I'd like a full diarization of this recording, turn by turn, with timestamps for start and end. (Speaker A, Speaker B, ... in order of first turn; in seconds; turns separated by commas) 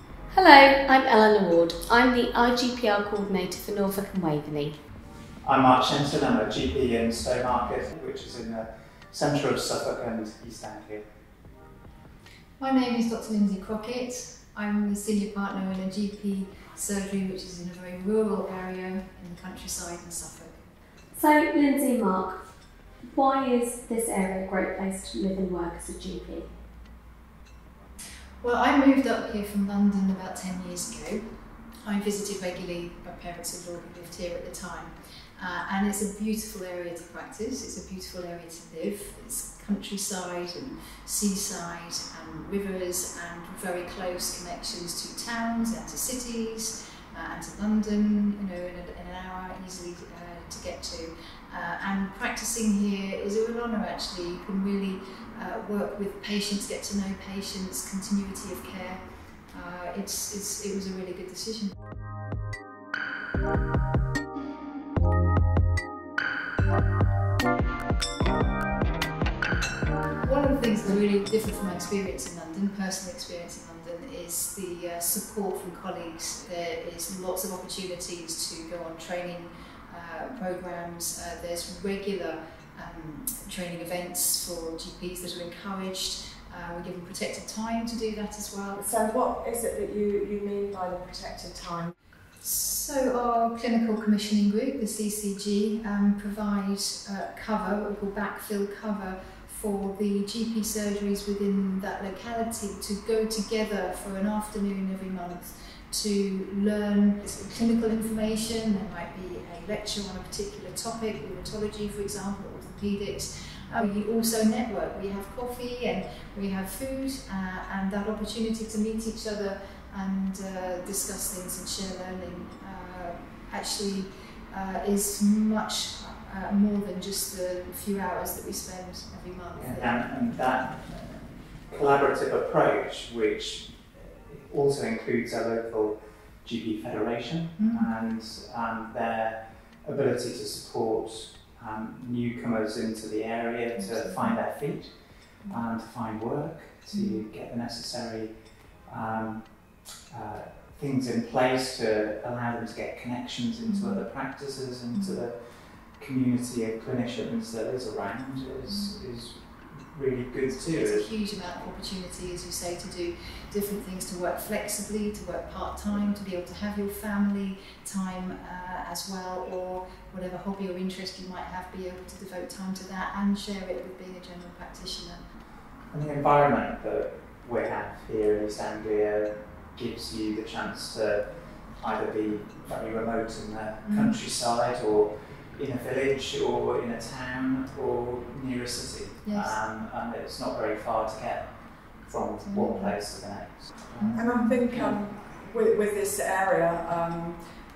Speaker A: 0.3-4.7, Speaker B: 5.4-11.0, Speaker C: 12.6-20.7, Speaker A: 21.1-22.4, Speaker A: 23.1-26.5, Speaker C: 28.4-61.8, Speaker C: 70.2-88.8, Speaker D: 88.7-91.9, Speaker C: 92.4-130.0, Speaker B: 129.5-161.1, Speaker C: 137.6-137.9, Speaker C: 143.8-144.4, Speaker C: 146.9-147.2, Speaker C: 153.7-154.1, Speaker C: 154.9-155.3, Speaker C: 158.7-159.0, Speaker C: 160.7-175.3, Speaker B: 175.9-195.0, Speaker C: 183.8-184.2, Speaker C: 189.2-189.6, Speaker C: 192.4-193.0, Speaker C: 193.9-194.7, Speaker D: 194.1-197.4